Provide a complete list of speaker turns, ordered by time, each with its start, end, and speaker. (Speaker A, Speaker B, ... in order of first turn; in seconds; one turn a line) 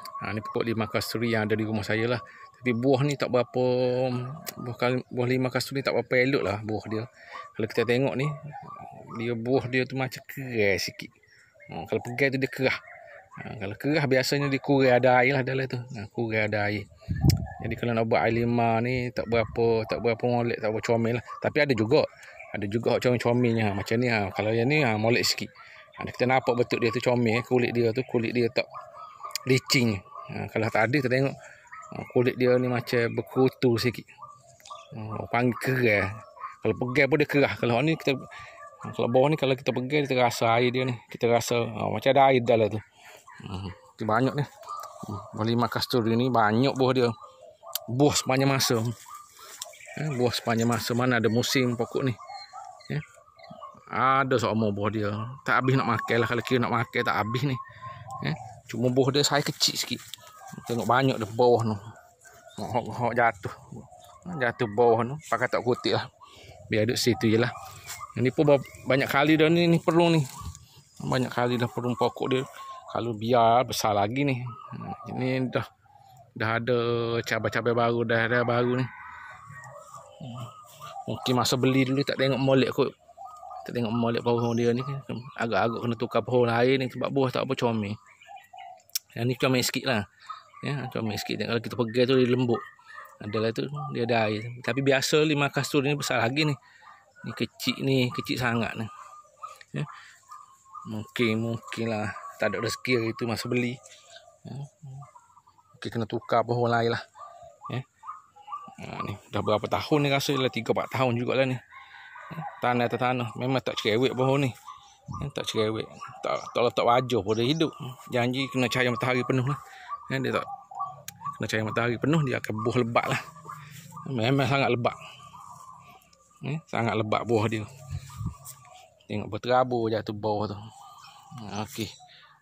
Speaker A: 0.2-11.1
Speaker A: 11.7-12.8
Speaker A: 13.4-28.7
Speaker A: 29.5-31.4
Speaker A: 31.9-34.1
Speaker A: 34.9-38.3
Speaker A: 38.8-42.9
Speaker A: 43.4-44.5
Speaker A: 45.0-47.1
Speaker A: 47.9-49.0
Speaker A: 50.0-52.2
Speaker A: 53.9-57.6
Speaker A: 58.2-60.0
Speaker A: 60.5-61.8
Speaker A: 62.6-66.1
Speaker A: 66.7-67.5
Speaker A: 68.2-70.3
Speaker A: 71.0-75.7
Speaker A: 76.4-78.9
Speaker A: 80.2-80.5
Speaker A: 81.1-82.9
Speaker A: 83.6-88.0
Speaker A: 89.2-90.1
Speaker A: 90.6-92.6
Speaker A: 93.2-96.6
Speaker A: 97.2-98.9
Speaker A: 100.9-103.8
Speaker A: 104.4-105.1
Speaker A: 105.8-107.0
Speaker A: 108.8-111.6
Speaker A: 112.3-114.5
Speaker A: 115.2-120.5
Speaker A: 121.3-123.2
Speaker A: 124.0-125.0
Speaker A: 126.4-128.2
Speaker A: 129.1-130.6
Speaker A: 131.3-131.9